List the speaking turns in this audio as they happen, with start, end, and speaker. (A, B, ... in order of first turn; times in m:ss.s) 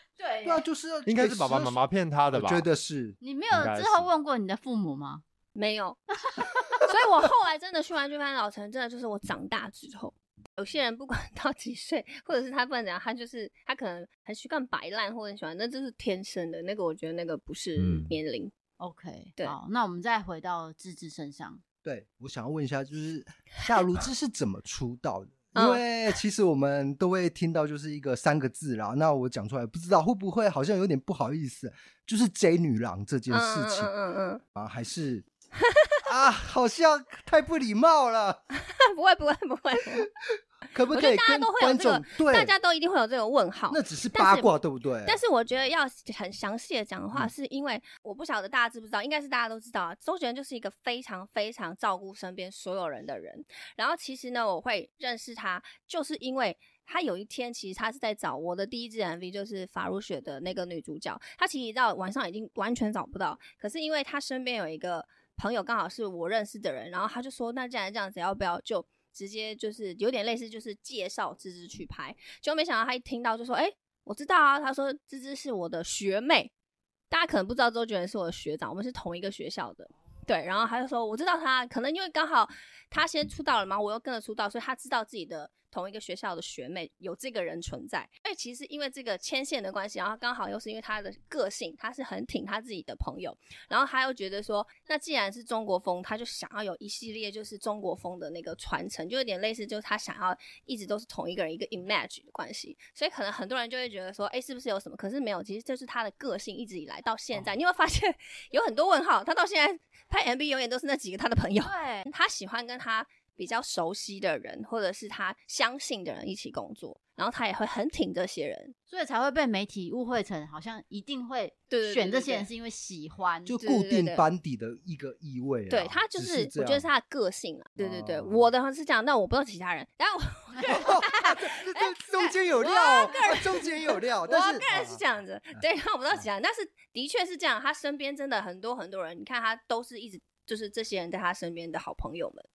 0:00.2-0:00.6 A
0:00.4-0:01.8 B
0:01.0-0:02.6 C
0:02.3-0:03.2 B
0:03.2-0:05.2 A
0:03.5-0:04.1 C
0:05.5-0:06.0 D
0:06.7-0:18.5 D
0:17.8-0:18.1 C
0:18.8-0:21.6 A
0:21.8-0:33.9 B
0:25.5-0:26.2 D
0:33.3-0:34.4 D
0:34.5-0:35.2 B
0:35.6-0:35.9 D
0:36.0-0:38.4 B
0:38.5-0:40.1 D
0:39.9-0:42.5 B
0:40.9-0:44.5 D
0:43.7-0:45.2 B
0:45.0-1:16.5 D
1:17.1-1:58.7 D
1:51.6-1:52.1 A
1:58.9-2:03.6 A
2:01.7-2:02.5 D
2:03.5-2:06.9 B
2:03.6-2:04.2 D
2:05.7-2:22.5 D
2:07.8-2:08.5 B
2:10.6-2:15.0 B